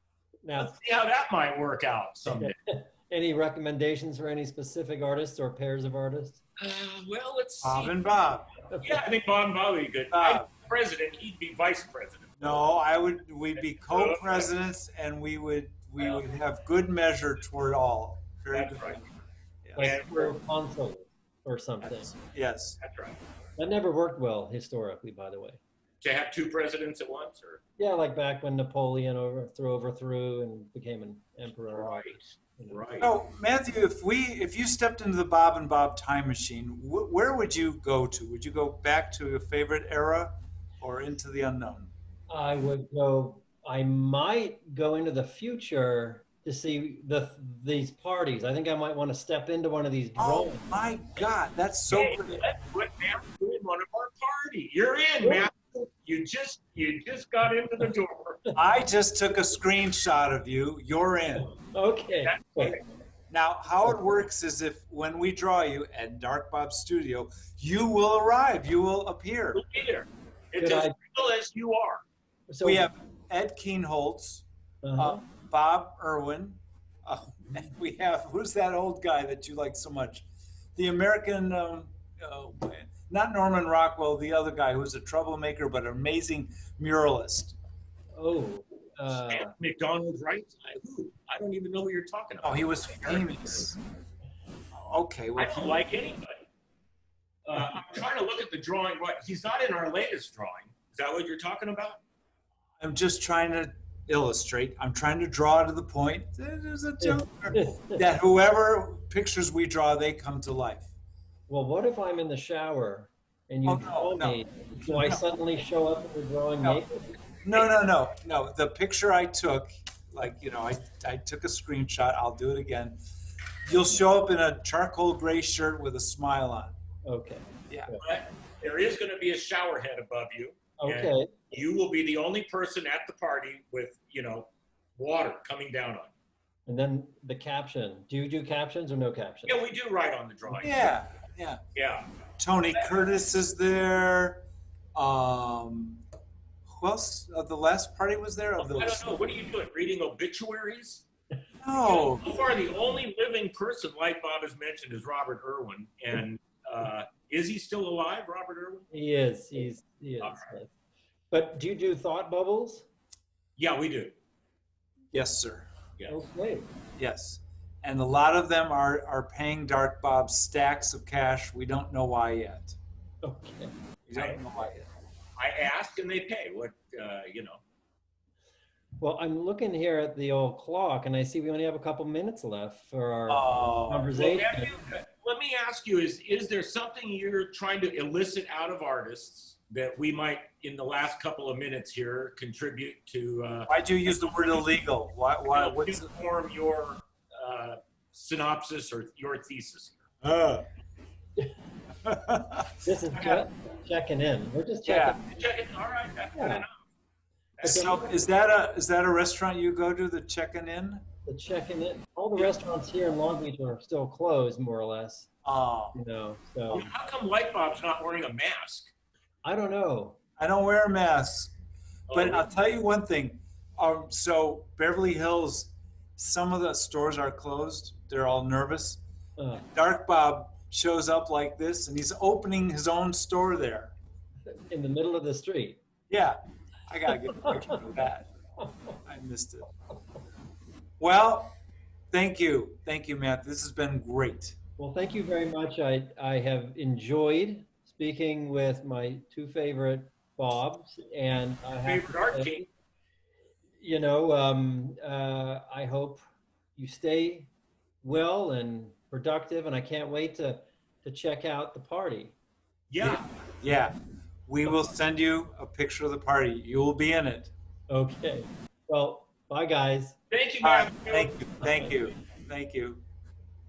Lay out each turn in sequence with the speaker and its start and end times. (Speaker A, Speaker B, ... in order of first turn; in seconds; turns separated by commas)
Speaker A: 0.4-0.7, Speaker B: 0.6-2.5, Speaker A: 2.2-6.4, Speaker B: 6.6-7.9, Speaker C: 7.6-8.5, Speaker B: 8.8-12.7, Speaker C: 10.1-10.5, Speaker C: 12.4-19.1, Speaker B: 13.8-14.5, Speaker B: 18.5-19.0, Speaker C: 19.6-19.9, Speaker A: 19.7-22.1, Speaker B: 19.8-20.3, Speaker C: 21.8-22.8, Speaker B: 22.8-23.2, Speaker A: 23.6-25.6, Speaker B: 26.0-27.6, Speaker A: 27.8-32.8, Speaker B: 31.7-33.1, Speaker C: 33.0-41.9, Speaker A: 42.3-50.8, Speaker C: 50.1-52.4, Speaker B: 51.9-58.4, Speaker A: 55.2-55.5, Speaker C: 58.5-61.5, Speaker A: 61.4-62.8, Speaker B: 62.2-62.8, Speaker C: 63.3-69.6, Speaker B: 69.5-72.0, Speaker A: 70.6-70.9, Speaker A: 72.5-72.9, Speaker C: 72.6-74.5, Speaker A: 74.8-75.2, Speaker C: 75.0-87.5, Speaker A: 88.1-89.5, Speaker B: 89.1-93.6, Speaker C: 92.4-93.8, Speaker C: 94.7-95.8, Speaker B: 95.4-96.4, Speaker B: 97.5-102.0, Speaker C: 102.8-110.9, Speaker A: 107.0-108.0, Speaker A: 111.5-117.1, Speaker C: 113.6-115.2, Speaker C: 117.4-123.0, Speaker C: 123.7-126.7, Speaker A: 127.0-128.1, Speaker C: 127.7-127.9, Speaker B: 128.0-136.1, Speaker A: 130.8-131.5, Speaker A: 136.7-139.6, Speaker B: 139.4-140.9, Speaker C: 140.6-141.6, Speaker B: 141.7-142.1, Speaker C: 142.4-146.0, Speaker C: 146.7-149.1, Speaker B: 148.6-151.0, Speaker C: 151.6-152.2, Speaker B: 151.8-158.9, Speaker A: 158.9-160.7, Speaker B: 160.2-160.5, Speaker A: 161.3-162.9, Speaker B: 163.6-164.1, Speaker C: 165.1-165.7, Speaker A: 166.1-166.7, Speaker C: 166.9-172.8, Speaker A: 173.2-173.7, Speaker C: 174.1-174.8, Speaker B: 174.1-174.4, Speaker B: 175.4-177.6, Speaker A: 179.0-184.7, Speaker C: 183.3-184.1, Speaker B: 184.1-193.7, Speaker C: 193.7-196.1, Speaker B: 195.5-200.1, Speaker C: 200.2-200.7, Speaker C: 202.0-203.4, Speaker A: 202.8-205.2, Speaker C: 204.8-205.2, Speaker B: 205.3-206.7, Speaker A: 206.3-206.7, Speaker B: 207.6-207.9, Speaker A: 207.6-208.1, Speaker C: 207.6-211.0, Speaker A: 211.2-215.3, Speaker C: 215.4-216.0, Speaker A: 215.9-216.9, Speaker B: 216.7-218.9, Speaker A: 219.4-220.2, Speaker C: 220.4-221.5, Speaker B: 222.1-222.5, Speaker C: 222.1-229.0, Speaker A: 229.4-229.6, Speaker C: 229.6-233.9, Speaker A: 234.4-235.8, Speaker C: 236.1-238.3, Speaker C: 239.0-239.7, Speaker C: 241.0-241.5, Speaker C: 242.1-244.6, Speaker A: 244.8-252.5, Speaker B: 251.8-252.7, Speaker A: 253.8-256.2, Speaker A: 256.8-257.5, Speaker A: 258.0-262.4, Speaker B: 262.9-263.2, Speaker C: 263.0-263.9, Speaker C: 264.5-267.5, Speaker A: 267.9-270.2, Speaker B: 270.3-271.4, Speaker C: 270.6-273.0, Speaker A: 271.6-271.9